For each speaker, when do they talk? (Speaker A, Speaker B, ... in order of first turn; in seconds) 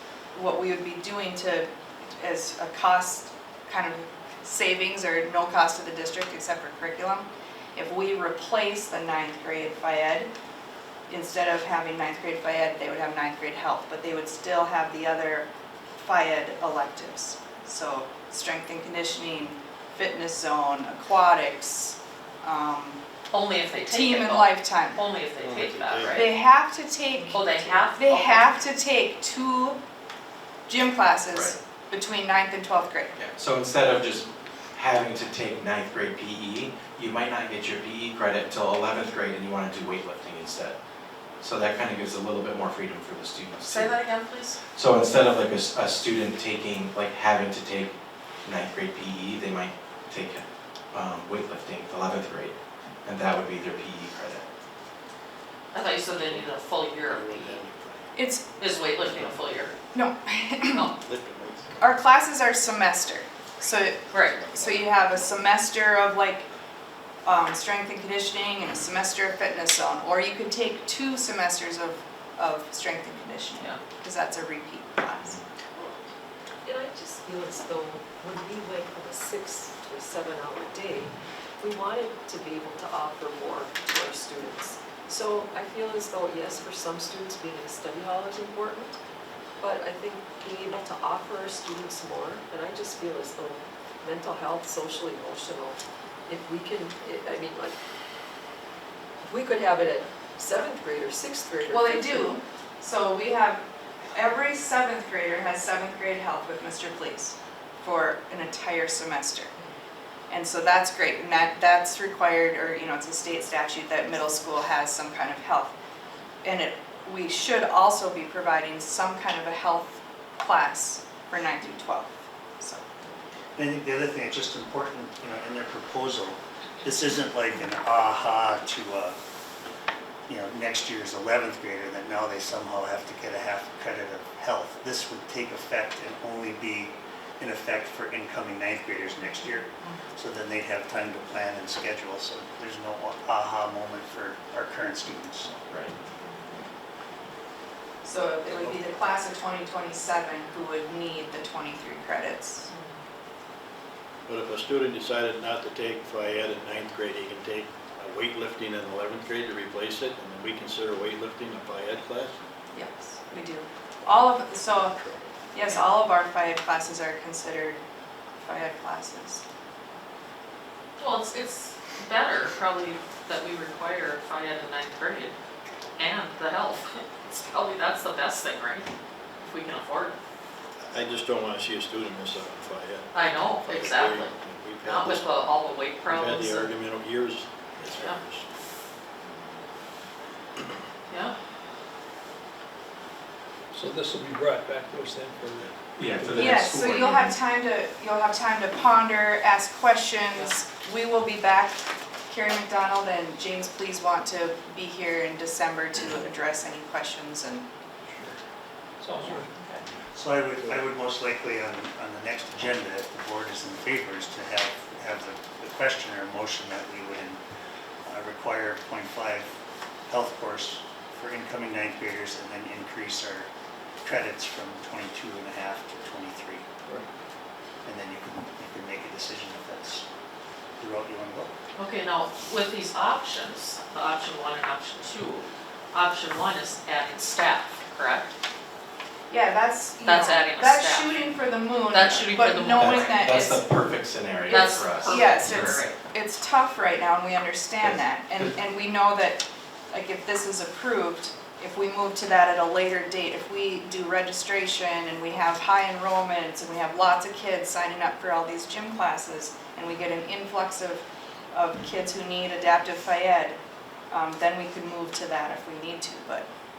Speaker A: 0.3-10.3, 11.1-23.0, 23.8-25.0, 26.1-29.8, 30.7-33.2, 58.1-58.4, 59.9-60.9, 61.8-66.5, 67.2-75.4, 101.7-109.5, 110.3-115.7, 116.4-122.9, 148.0-152.7, 162.7-165.0, 165.5-167.8, 168.4-169.4, 196.3-207.7, 239.3-243.6, 244.5-263.6, 264.1-266.5
Speaker B: 23.3-26.3, 27.3-28.5, 43.6-44.6, 55.7-57.6, 58.6-59.7, 60.6-60.9, 64.1-64.4, 139.8-140.1, 165.6-165.9, 171.0-175.3, 176.0-178.9, 179.4-180.2, 183.1-184.3, 184.8-186.7, 187.9-188.2, 191.1-191.3, 209.2-209.8, 231.8-238.3, 240.0-241.3, 241.9-243.2, 244.5-246.0
Speaker C: 25.4-26.2, 56.2-58.1, 59.0-59.6, 60.9-62.0, 64.1-65.5, 154.3-162.4, 180.9-185.5, 186.0-188.4
Speaker D: 33.2-40.8, 41.4-44.0, 44.7-47.9, 48.4-52.5, 53.0-54.4, 145.7-145.9, 195.9-197.3, 242.8-245.8, 247.8-248.5
Speaker E: 76.6-89.0, 89.6-97.8, 99.2-102.4
Speaker F: 123.5-129.2, 130.3-145.6, 210.1-217.4, 218.0-219.5, 220.1-223.5, 224.0-226.6, 227.8-230.1, 230.8-231.5
Speaker G: 193.7-196.6, 209.0-209.5